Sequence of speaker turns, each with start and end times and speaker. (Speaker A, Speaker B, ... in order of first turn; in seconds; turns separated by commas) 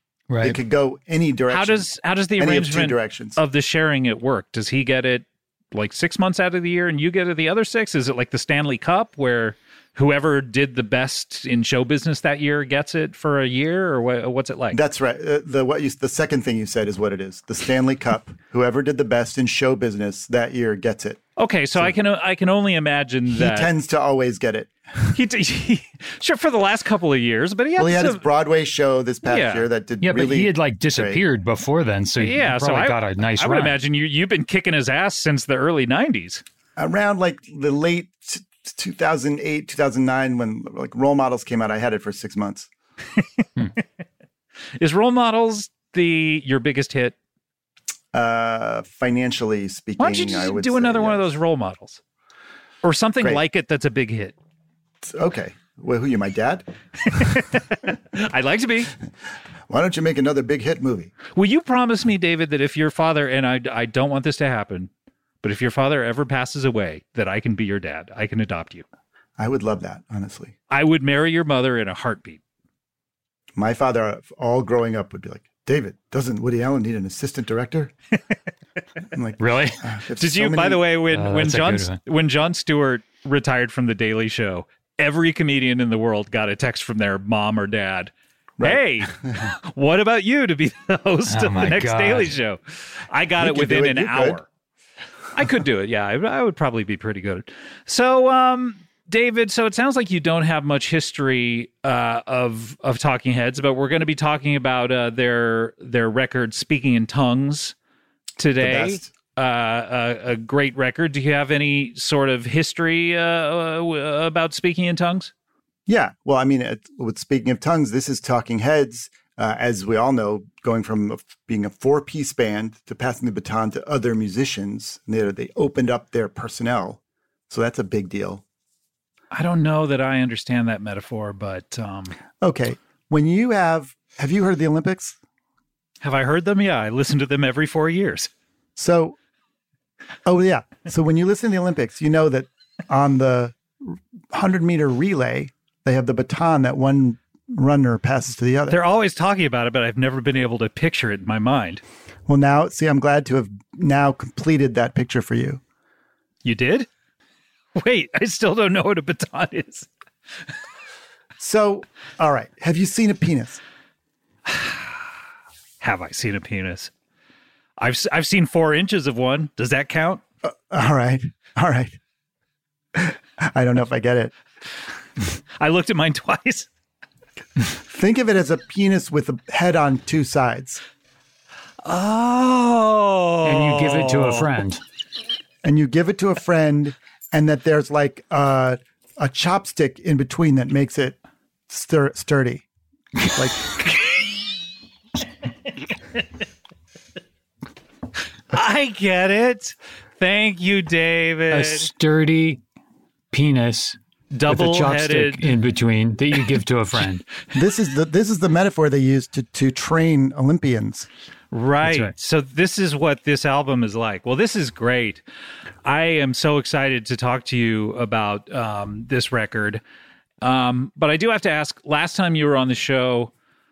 Speaker A: 0.3-0.6, Speaker B: 0.4-3.4, Speaker C: 1.5-14.8, Speaker B: 14.7-21.2, Speaker C: 21.4-23.7, Speaker B: 23.3-25.2, Speaker C: 25.1-28.2, Speaker B: 27.8-31.2, Speaker C: 29.2-29.7, Speaker A: 30.0-33.8, Speaker C: 32.2-36.4, Speaker B: 36.8-42.7, Speaker C: 44.8-47.1, Speaker B: 48.1-51.3, Speaker C: 50.0-52.0, Speaker C: 52.8-54.4, Speaker B: 55.0-57.3, Speaker C: 57.1-58.9, Speaker B: 59.7-61.1, Speaker C: 61.3-64.9, Speaker C: 65.4-68.8, Speaker B: 69.4-70.5, Speaker C: 70.7-72.4, Speaker B: 73.5-77.9, Speaker B: 79.1-80.8, Speaker A: 79.4-79.8, Speaker C: 80.2-94.5, Speaker A: 81.1-82.0, Speaker B: 88.6-89.5, Speaker A: 91.3-92.4, Speaker B: 93.4-94.4, Speaker C: 95.3-107.7, Speaker C: 108.4-115.3, Speaker B: 108.6-109.1, Speaker B: 115.9-128.4, Speaker C: 129.3-132.1, Speaker B: 132.4-135.2, Speaker C: 136.0-138.3, Speaker B: 138.8-139.2, Speaker B: 140.2-148.8, Speaker C: 148.7-151.8, Speaker B: 152.3-155.6, Speaker C: 156.4-156.9, Speaker C: 157.7-159.9, Speaker B: 161.4-163.6, Speaker C: 164.5-165.0, Speaker C: 165.8-166.9, Speaker C: 167.8-170.2, Speaker B: 170.4-172.0, Speaker B: 172.9-174.3, Speaker C: 175.6-176.7, Speaker B: 177.7-180.8, Speaker C: 181.8-184.5, Speaker A: 183.4-184.8, Speaker B: 185.6-191.2, Speaker B: 191.7-192.7, Speaker B: 193.2-193.9, Speaker C: 198.5-201.9, Speaker A: 201.5-202.6, Speaker A: 203.3-207.2, Speaker C: 204.3-205.5, Speaker B: 207.5-211.1, Speaker C: 211.5-215.2, Speaker A: 211.8-212.1, Speaker C: 215.8-219.8, Speaker C: 220.4-223.3